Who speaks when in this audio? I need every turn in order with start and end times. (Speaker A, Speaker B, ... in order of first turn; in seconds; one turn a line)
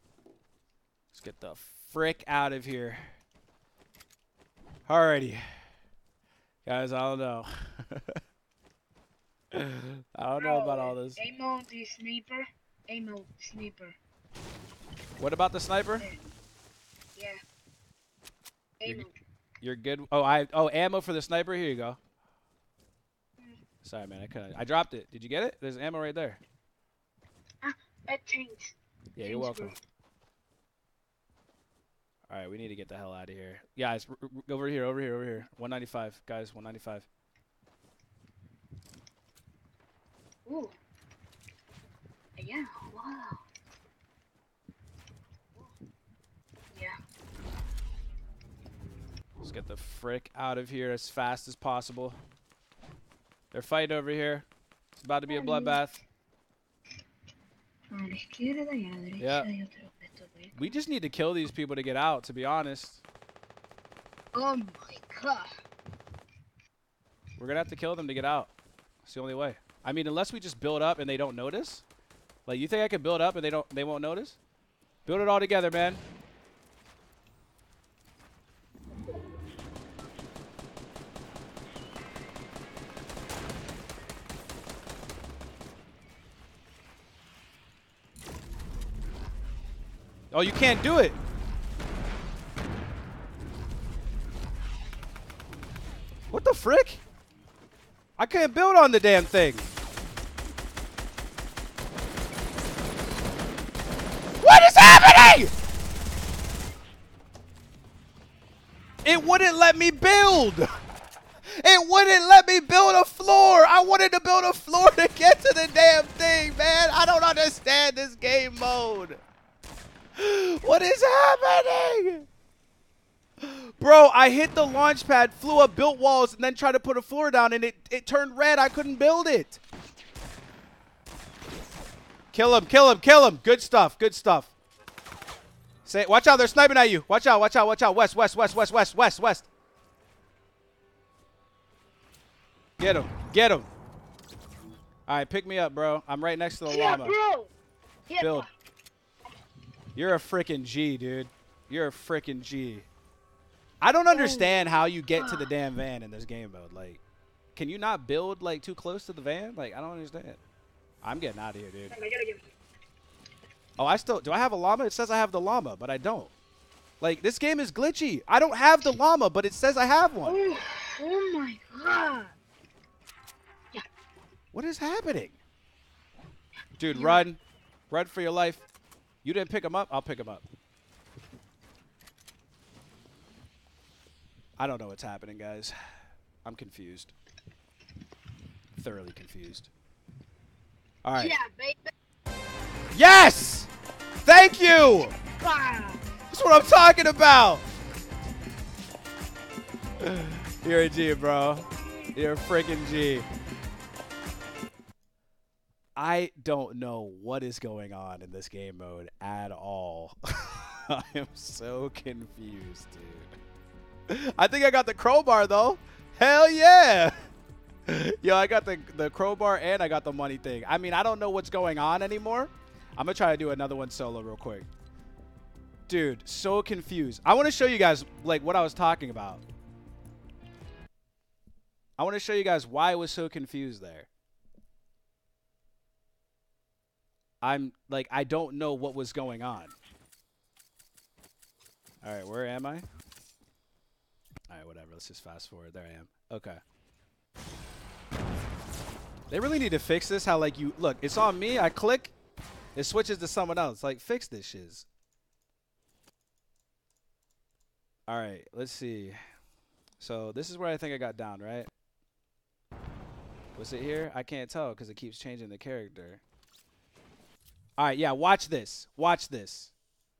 Speaker A: 1.1-3.1
Speaker A: 4.9-5.4
Speaker A: 6.6-8.2
Speaker A: 9.5-11.2
Speaker B: 10.4-14.0
Speaker A: 15.2-16.1
Speaker B: 18.8-19.1
Speaker A: 19.6-22.0
Speaker A: 23.8-26.4
Speaker B: 27.6-29.8
Speaker A: 29.1-29.7
Speaker A: 32.3-37.1
Speaker B: 40.5-40.8
Speaker B: 42.4-43.4
Speaker A: 49.4-52.2
Speaker A: 53.5-54.5
Speaker A: 55.0-56.0
Speaker B: 55.3-55.8
Speaker B: 57.9-60.8
Speaker A: 59.2-59.5
Speaker A: 60.5-63.0
Speaker B: 64.3-65.5
Speaker A: 67.4-68.5
Speaker A: 69.0-71.8
Speaker A: 72.5-74.4
Speaker A: 75.0-76.0
Speaker A: 90.3-91.2
Speaker A: 96.3-97.0
Speaker A: 98.2-99.7
Speaker A: 104.4-105.5
Speaker A: 109.0-110.7
Speaker A: 111.5-119.2
Speaker A: 120.2-122.2
Speaker A: 123.4-129.6
Speaker A: 132.3-134.5
Speaker A: 135.8-139.5
Speaker A: 142.8-143.7
Speaker A: 145.1-147.1
Speaker B: 146.7-147.5
Speaker B: 148.1-148.4
Speaker A: 148.2-148.4
Speaker A: 149.9-152.9
Speaker A: 153.8-157.0
Speaker B: 154.1-155.5
Speaker A: 157.5-160.4
Speaker A: 161.0-161.9
Speaker B: 161.9-162.4
Speaker A: 163.8-166.3
Speaker A: 167.0-170.4
Speaker B: 170.2-172.3
Speaker A: 174.5-175.4
Speaker A: 176.8-178.7
Speaker B: 176.9-177.2
Speaker A: 179.2-180.4
Speaker A: 184.6-185.8
Speaker A: 186.4-187.1
Speaker A: 188.8-189.7
Speaker A: 191.0-191.3
Speaker B: 191.2-191.9
Speaker A: 192.9-193.7
Speaker A: 194.2-195.1
Speaker B: 195.4-196.0
Speaker A: 196.3-197.6
Speaker A: 200.0-203.3
Speaker A: 205.9-213.3
Speaker A: 214.1-217.2
Speaker A: 217.9-224.7
Speaker A: 225.9-229.4
Speaker A: 232.0-234.1
Speaker A: 237.4-239.8
Speaker A: 242.0-242.8
Speaker A: 244.5-246.6
Speaker A: 249.3-252.1
Speaker A: 252.7-254.8
Speaker A: 258.1-259.2
Speaker A: 260.0-261.7
Speaker A: 263.5-266.2
Speaker A: 267.8-269.7